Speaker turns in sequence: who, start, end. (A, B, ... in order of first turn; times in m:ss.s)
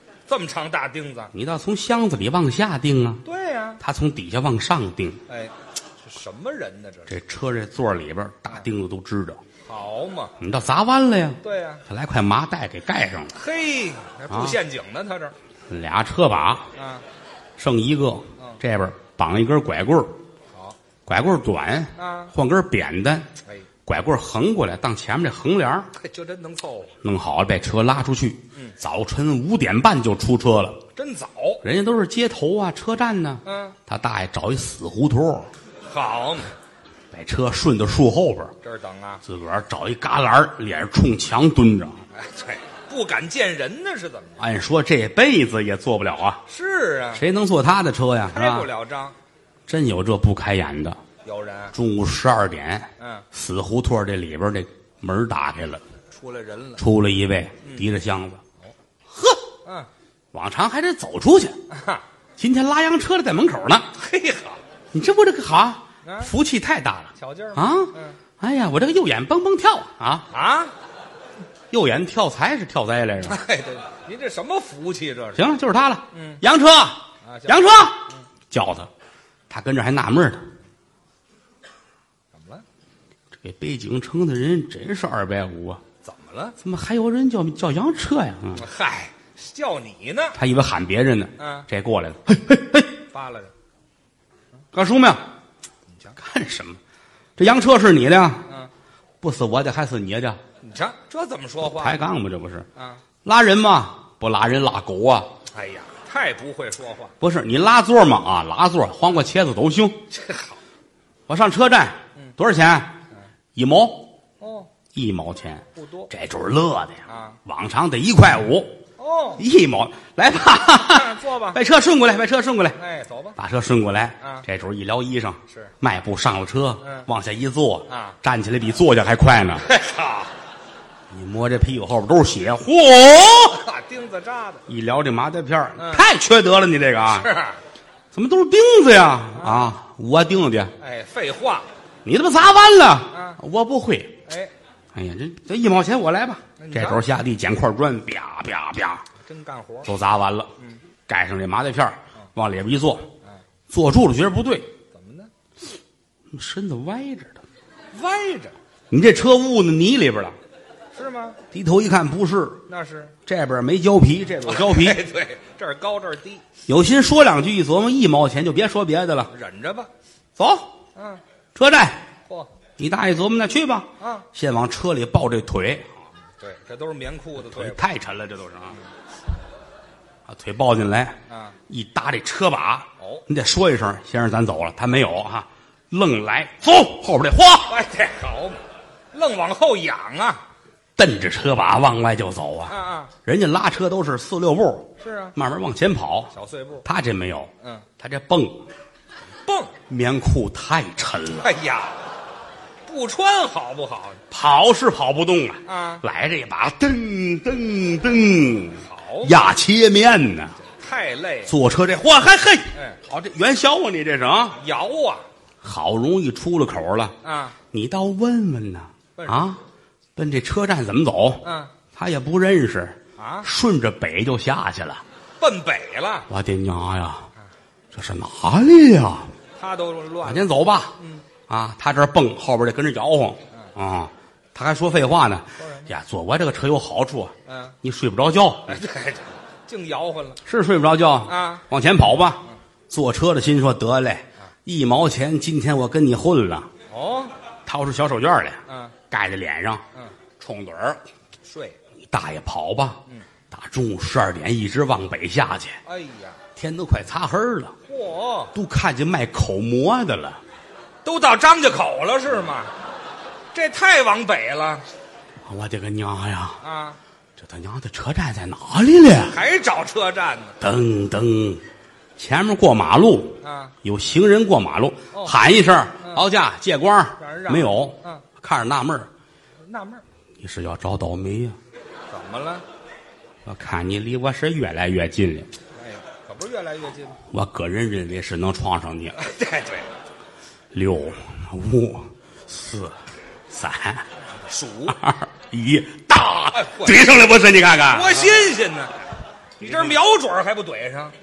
0:00.3-0:01.3 A
0:01.3-0:03.2 B
0:03.2-0:03.8 A
0:03.8-0:05.2 B
0:05.3-0:07.2 A
0:07.1-0:09.4 B
0:09.6-0:10.4 A
0:10.4-0:13.3 B
0:11.4-0:11.8 A
0:13.3-0:15.4 A
0:14.3-0:14.6 B
0:15.7-0:16.7 B
0:16.8-0:17.0 A
0:17.6-0:20.2 B
0:21.1-0:23.3 B
0:22.0-0:22.3 A
0:23.9-0:25.9 B
0:25.9-0:27.0 A
0:27.0-0:30.8 B
0:31.0-0:31.6 A
0:31.6-0:35.5 B
0:33.4-0:33.8 A
0:35.9-0:36.5 A
0:37.1-0:38.5 B
0:38.6-0:39.2 A
0:39.2-0:42.0 B
0:42.1-0:44.4 A
0:44.4-0:46.4 B
0:46.5-0:47.2 A
0:47.2-0:48.7 B
0:48.3-0:49.2 A
0:49.7-0:51.0 B
0:51.2-0:51.8 A
0:51.7-0:55.8 B
0:53.0-0:53.3 A
0:56.1-0:56.8 A
0:56.8-0:58.4 B
0:57.6-0:57.9 A
0:59.1-0:59.4 B
0:59.6-0:59.9 A
1:00.3-1:01.6 B
1:01.7-1:02.0 A
1:02.4-1:03.9 B
1:03.9-1:04.6 A
1:04.9-1:10.3 B
1:06.0-1:06.3 A
1:07.2-1:08.2 A
1:10.3-1:10.7 A
1:11.7-1:13.4 B
1:13.2-1:15.5 A
1:15.4-1:18.9 B
1:16.1-1:16.4 A
1:17.2-1:18.2 A
1:19.5-1:20.4 B
1:22.3-1:22.6 A
1:23.4-1:25.8 B
1:26.0-1:26.6 A
1:26.6-1:28.7 B
1:28.5-1:30.4 A
1:30.4-1:32.9 B
1:31.4-1:31.7 A
1:33.1-1:33.5 A
1:34.7-1:35.2 B
1:35.9-1:36.2 A
1:36.2-1:36.8 B
1:37.4-1:38.5 B
1:39.2-1:40.4 B
1:40.6-1:42.0 A
1:41.6-1:42.7 B
1:42.8-1:43.0 A
1:43.2-1:45.3 B
1:45.5-1:47.2 A
1:47.2-1:50.0 B
1:50.1-1:50.6 A
1:51.3-1:53.0 B
1:53.6-1:54.1 B
1:54.4-1:54.7 A
1:54.9-1:58.8 B
1:55.8-1:56.1 A
1:57.1-1:57.4 A
1:59.0-1:59.4 A
1:59.4-2:02.8 B
2:00.6-2:01.6 A
2:02.8-2:03.4 A
2:03.4-2:09.7 B
2:04.2-2:04.5 A
2:05.5-2:05.7 A
2:06.8-2:07.1 A
2:07.9-2:08.2 A
2:09.6-2:10.3 A
2:11.1-2:13.6 B
2:13.5-2:14.7 A
2:14.7-2:17.3 B
2:15.8-2:16.0 A
2:17.1-2:17.6 A
2:18.1-2:20.8 B
2:19.4-2:19.8 A
2:20.8-2:21.7 A
2:22.0-2:24.2 B
2:23.1-2:23.4 A
2:24.3-2:24.5 A
2:24.9-2:29.1 B
2:26.6-2:27.0 A
2:29.2-2:29.9 A
2:29.9-2:30.5 B
2:31.1-2:33.1 B
2:33.7-2:34.7 B
2:34.9-2:35.3 A
2:36.3-2:37.4 B
2:37.9-2:38.6 A
2:38.9-2:40.4 B
2:40.9-2:41.4 A
2:41.5-2:42.6 B
2:42.7-2:43.2 A
2:43.2-2:45.0 B
2:44.4-2:46.4 A
2:46.7-2:49.3 B
2:49.3-2:49.9 A
2:50.4-2:50.7 B
2:51.0-2:51.2 A
2:51.6-2:52.0 B
2:52.3-2:52.5 A
2:52.8-2:55.9 B
2:54.0-2:54.3 A
2:56.4-2:58.0 A
2:57.4-2:58.8 B
3:00.3-3:07.8 B
3:01.3-3:01.6 A
3:03.0-3:03.2 A
3:07.7-3:08.6 A
3:09.1-3:10.4 A
3:11.0-3:16.3 B
3:12.7-3:13.1 A
3:15.0-3:15.4 A
3:16.3-3:16.9 A
3:16.8-3:18.6 B
3:19.4-3:19.8 A
3:19.9-3:21.5 B
3:21.4-3:22.1 A
3:22.9-3:24.2 A
3:24.3-3:30.5 B
3:25.6-3:26.0 A
3:28.8-3:29.4 A
3:30.6-3:31.6 A
3:31.5-3:34.6 B
3:32.7-3:33.0 A
3:34.5-3:35.3 A
3:35.6-3:37.2 B
3:37.2-3:37.6 A
3:37.7-3:39.6 B
3:39.2-3:39.5 A
3:40.2-3:45.0 B
3:41.4-3:41.7 A
3:43.2-3:43.5 A
3:45.4-3:46.3 A
3:46.3-3:47.3 B
3:47.9-3:49.3 B
3:49.6-3:51.3 A
3:50.2-3:51.0 B
3:51.5-3:58.8 B
3:55.6-3:55.9 A
3:57.5-3:57.8 A
3:58.7-4:00.4 A
4:00.4-4:06.7 B
4:01.3-4:01.6 A
4:06.9-4:07.3 A
4:07.7-4:09.8 B
4:08.7-4:09.0 A
4:10.4-4:11.0 B
4:11.4-4:11.8 A
4:12.0-4:15.8 B
4:15.8-4:16.4 A
4:16.6-4:17.8 B
4:17.8-4:18.6 A
4:18.5-4:20.4 B
4:21.0-4:22.7 A
4:23.5-4:24.9 A
4:25.4-4:26.6 B
4:26.6-4:27.0 A
4:27.4-4:29.4 B
4:29.2-4:30.6 A
4:30.6-4:31.6 B
4:32.2-4:39.1 B
4:33.4-4:33.8 A
4:35.1-4:35.4 A
4:36.0-4:36.3 A
4:37.2-4:38.3 A
4:39.6-4:40.0 A
4:40.4-4:41.6 B
4:42.1-4:42.6 A
4:43.4-4:45.5 B
4:45.8-4:47.2 A
4:47.3-4:49.2 B
4:49.2-4:49.9 A
4:50.7-4:54.1 B
4:54.4-4:55.0 A
4:54.9-4:58.4 B
4:56.5-4:57.0 A
4:57.9-4:59.1 A
4:59.6-5:01.1 A
4:59.6-5:00.0 B